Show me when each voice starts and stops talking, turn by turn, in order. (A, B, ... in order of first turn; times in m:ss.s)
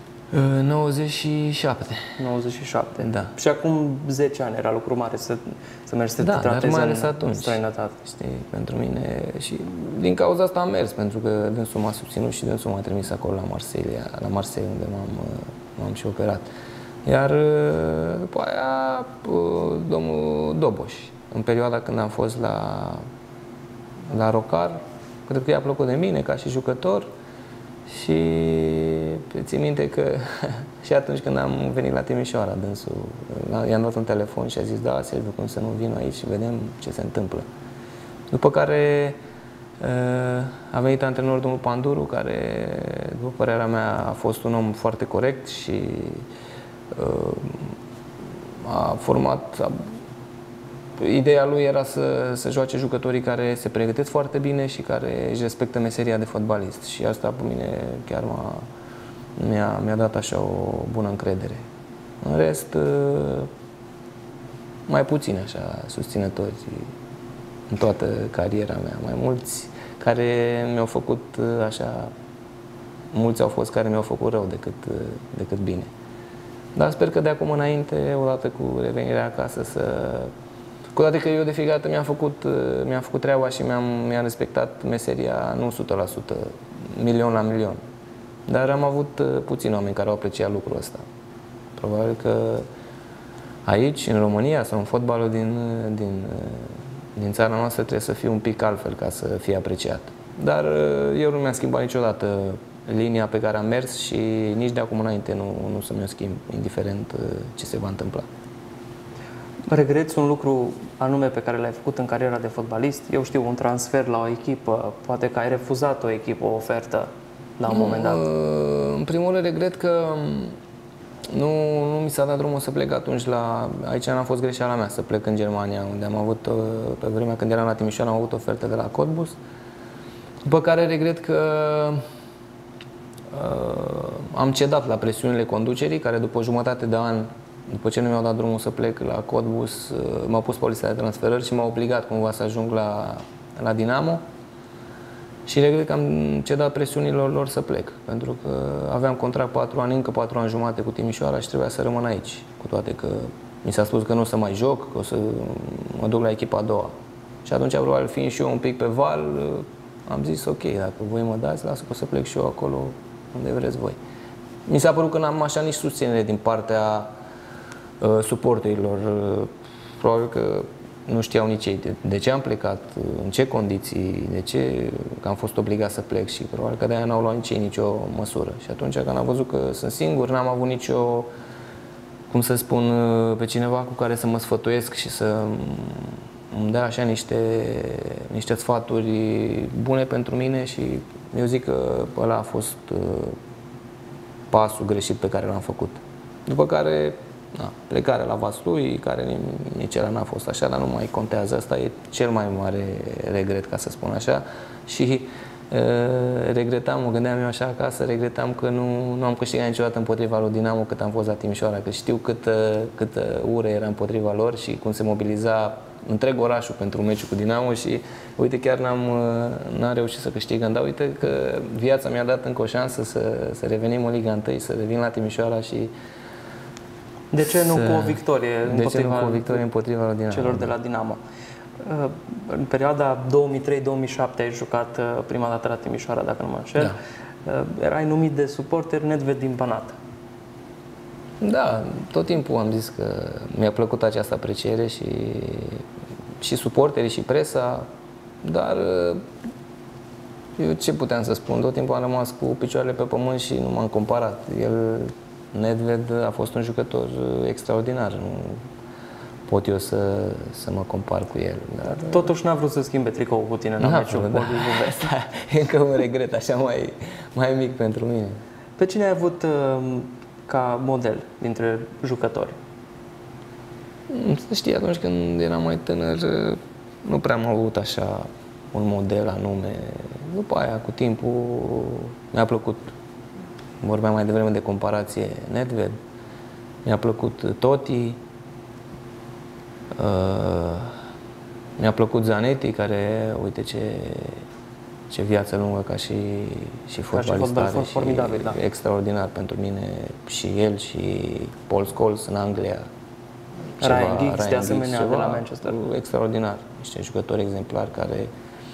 0:00.3-0:02.1 A
0:02.2-0:08.0 B
0:03.0-0:03.3 A
0:06.2-0:16.5 A
0:17.0-0:23.0 A
0:24.1-0:27.1 A
0:27.9-0:37.4 A
0:38.3-0:39.2 A
0:39.8-0:46.2 A
0:46.9-0:47.7 A
0:48.6-0:49.8 A
0:51.0-0:58.6 A
0:59.4-1:01.6 A
1:02.2-1:03.5 A
1:04.9-1:06.9 A
1:07.7-1:12.1 A
1:13.1-1:15.9 A
1:16.7-1:20.3 A
1:20.9-1:27.8 A
1:28.5-1:31.0 A
1:31.8-1:32.6 A
1:33.6-1:48.2 A
1:49.7-1:58.2 B
1:57.7-2:00.6 A
2:01.3-2:09.4 A
2:10.4-2:12.0 A
2:13.3-2:24.2 A
2:25.4-2:36.9 A
2:37.4-2:44.0 A
2:44.6-2:47.1 A
2:48.0-3:01.3 A
3:02.3-3:13.4 A
3:14.5-3:45.9 A
3:47.3-3:49.6 B
3:47.7-3:50.7 A
3:50.3-3:51.2 B
3:51.8-4:00.0 B
4:01.4-4:05.8 A
4:06.4-4:07.8 A
4:08.4-4:09.2 A
4:10.6-4:18.6 A
4:19.5-4:22.3 A
4:21.9-4:25.1 B
4:23.8-4:28.4 A
4:28.8-4:32.6 B
4:34.1-4:42.8 A
4:43.8-4:46.0 A
4:46.8-4:48.2 A
4:50.0-4:50.9 A
4:51.8-4:54.4 A
4:55.1-5:02.8 A
4:57.1-4:58.6 B
5:03.8-5:08.3 A
5:03.8-5:05.8 B